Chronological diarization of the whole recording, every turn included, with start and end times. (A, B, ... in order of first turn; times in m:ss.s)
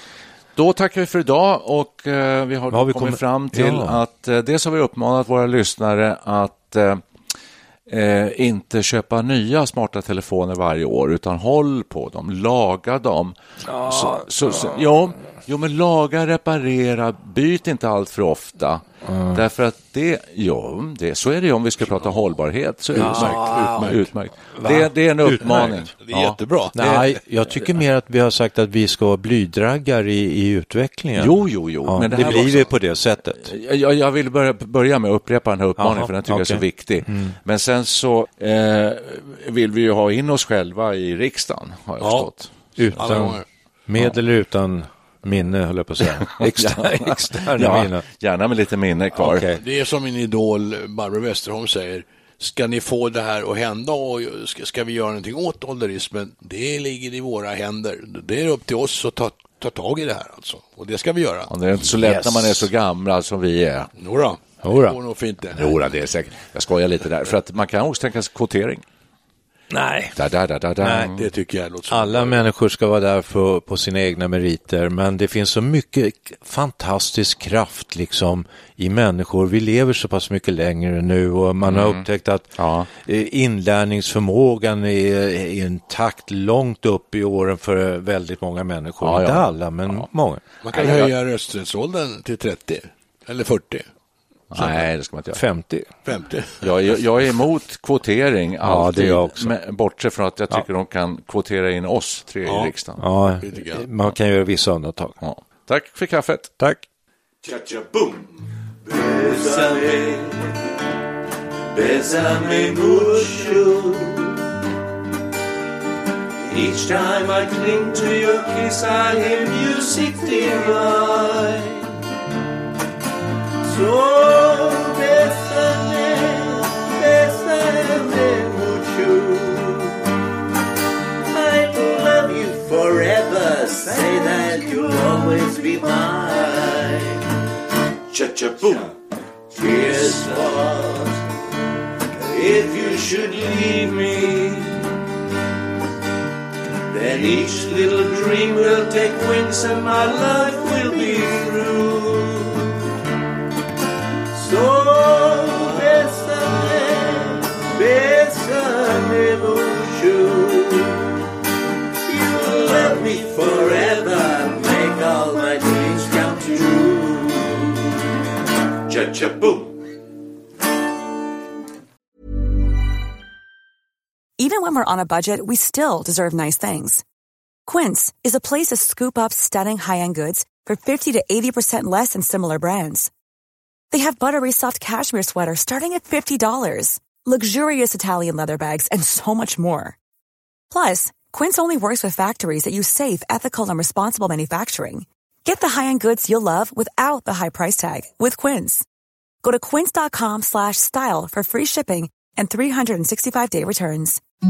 0:00.6-0:07.0 A
0:02.7-0:04.0 B
0:07.9-0:27.7 A
0:13.7-0:14.8 B
0:19.0-0:19.4 B
0:22.9-0:24.1 C
0:23.0-0:23.9 B
0:24.6-0:25.8 B
0:25.4-0:26.8 C
0:26.7-0:33.4 B
0:31.2-0:32.7 A
0:32.1-0:32.4 C
0:33.4-0:43.2 A
0:35.8-0:37.4 B
0:42.0-0:42.3 C
0:42.8-0:48.0 B
0:43.0-0:43.4 C
0:46.2-0:49.5 A
0:49.2-0:49.6 B
0:49.3-1:01.5 C
1:01.5-1:03.9 A
1:02.0-1:02.7 B
1:04.0-1:05.6 C
1:04.6-1:05.0 B
1:05.5-1:08.8 A
1:09.7-1:10.2 B
1:10.2-1:11.3 A
1:10.8-1:11.1 B
1:11.1-1:12.4 C
1:11.9-1:30.4 B
1:21.6-1:22.0 A
1:22.6-1:22.9 A
1:29.0-1:30.0 A
1:30.6-1:33.8 C
1:30.7-1:31.1 A
1:34.5-1:35.4 A
1:34.6-1:34.8 C
1:35.3-1:35.9 B
1:36.0-1:37.0 C
1:36.6-1:43.0 A
1:38.6-1:39.5 B
1:42.4-1:42.7 C
1:43.0-1:45.2 B
1:43.4-1:43.8 C
1:45.2-1:46.5 A
1:46.6-1:46.8 B
1:47.4-1:48.3 D
1:48.9-1:50.5 D
1:51.7-1:54.4 D
1:56.5-2:01.9 D
2:03.6-2:10.0 D
2:11.3-2:17.2 D
2:18.1-2:18.9 D
2:19.5-2:21.2 D
2:22.2-2:24.7 D
2:26.9-2:32.7 D
2:34.3-2:41.0 D
2:42.0-2:47.8 D
2:48.9-2:49.8 D
2:54.4-2:57.0 E
2:57.6-3:03.1 E
3:03.9-3:10.0 E
3:10.7-3:18.8 E
3:19.4-3:24.2 E